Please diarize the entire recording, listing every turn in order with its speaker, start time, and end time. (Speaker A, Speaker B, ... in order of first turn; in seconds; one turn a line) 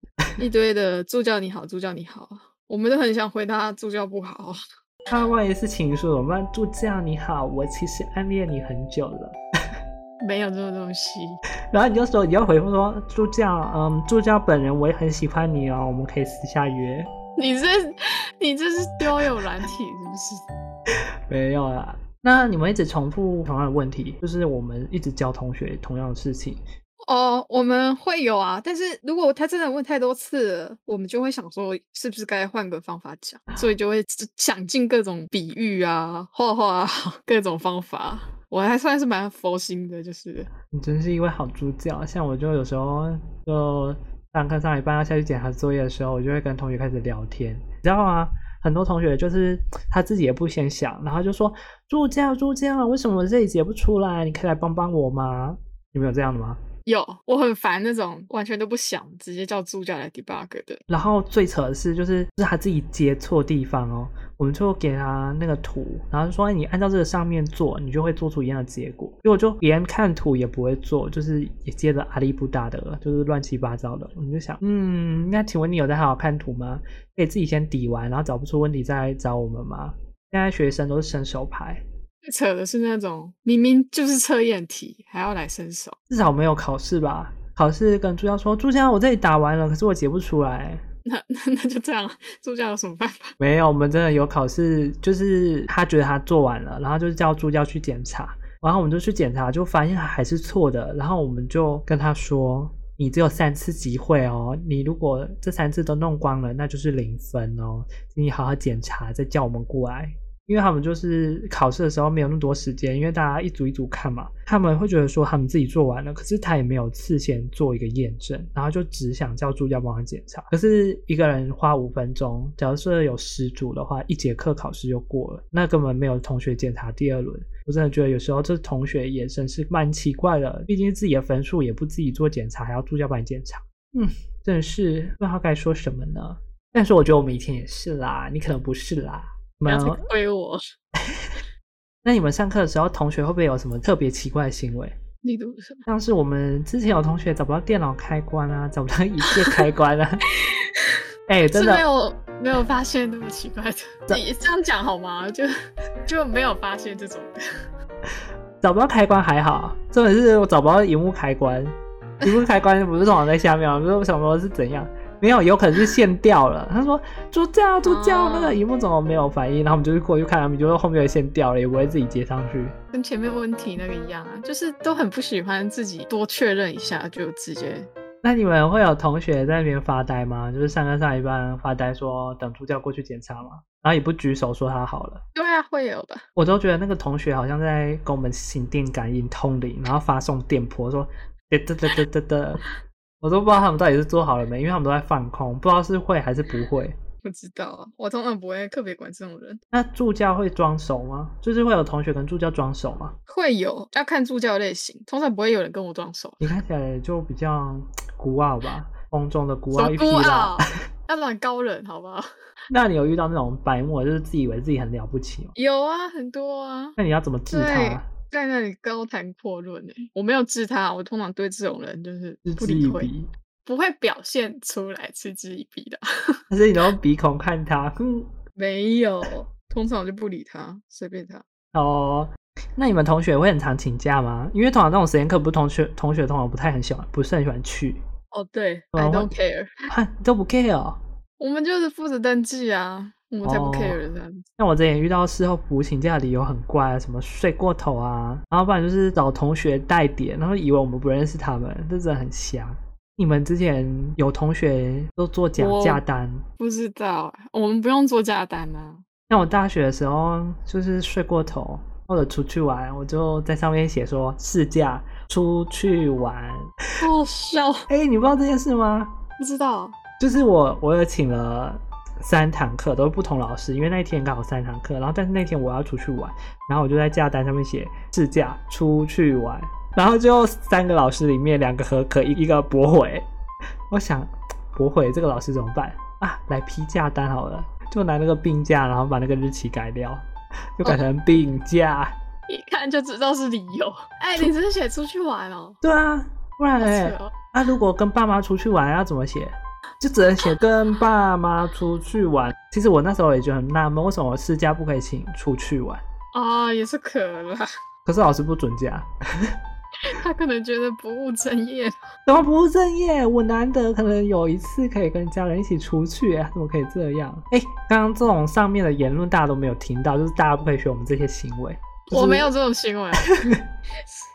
Speaker A: 0.4-4.6
Speaker B: 5.1-9.4
Speaker A: 10.2-11.4
Speaker B: 11.7-17.1
Speaker A: 17.4-20.4
Speaker B: 21.3-26.6
Speaker A: 27.0-40.5
Speaker B: 40.7-56.6
Speaker A: 56.9-60.8
Speaker B: 60.9-81.8
Speaker A: 82.2-86.0
Speaker B: 86.1-90.8
Speaker A: 91.0-93.3
Speaker B: 93.4-140.0
Speaker A: 139.7-140.6
Speaker B: 141.0-141.4
Speaker B: 142.0-144.9
Speaker A: 145.2-145.8
Speaker B: 145.8-150.2
Speaker A: 149.3-149.6
Speaker A: 150.4-155.5
Speaker B: 151.3-151.8
Speaker A: 156.0-157.4
Speaker B: 158.6-172.7
Speaker A: 167.8-168.6
Speaker A: 172.9-177.9
Speaker B: 178.2-185.2
Speaker A: 185.3-186.2
Speaker B: 186.3-192.7
Speaker B: 193.2-196.9
Speaker A: 197.2-199.6
Speaker B: 199.7-203.2
Speaker A: 203.3-206.5
Speaker B: 206.4-210.6
Speaker A: 209.7-212.3
Speaker B: 212.7-215.5
Speaker A: 215.5-217.0
Speaker B: 217.0-218.1
Speaker A: 217.5-223.1
Speaker B: 222.4-223.3
Speaker A: 223.6-226.4
Speaker B: 226.5-228.3
Speaker A: 228.6-231.4
Speaker B: 231.7-238.0
Speaker A: 238.3-239.8
Speaker B: 238.9-239.3
Speaker B: 239.9-241.0
Speaker A: 241.4-244.4
Speaker B: 243.4-244.0
Speaker B: 244.6-256.4
Speaker A: 255.6-256.0
Speaker A: 256.6-259.0
Speaker B: 259.3-266.7
Speaker A: 267.0-267.9
Speaker B: 267.9-269.1
Speaker A: 269.4-270.0
Speaker B: 270.2-283.2
Speaker B: 283.9-290.2
Speaker B: 290.8-292.1
Speaker A: 292.5-295.8
Speaker B: 295.8-306.0
Speaker A: 296.8-297.4
Speaker A: 306.3-307.7
Speaker B: 308.1-309.6
Speaker A: 310.0-311.9
Speaker B: 312.2-322.5
Speaker A: 322.1-324.2
Speaker B: 323.2-323.6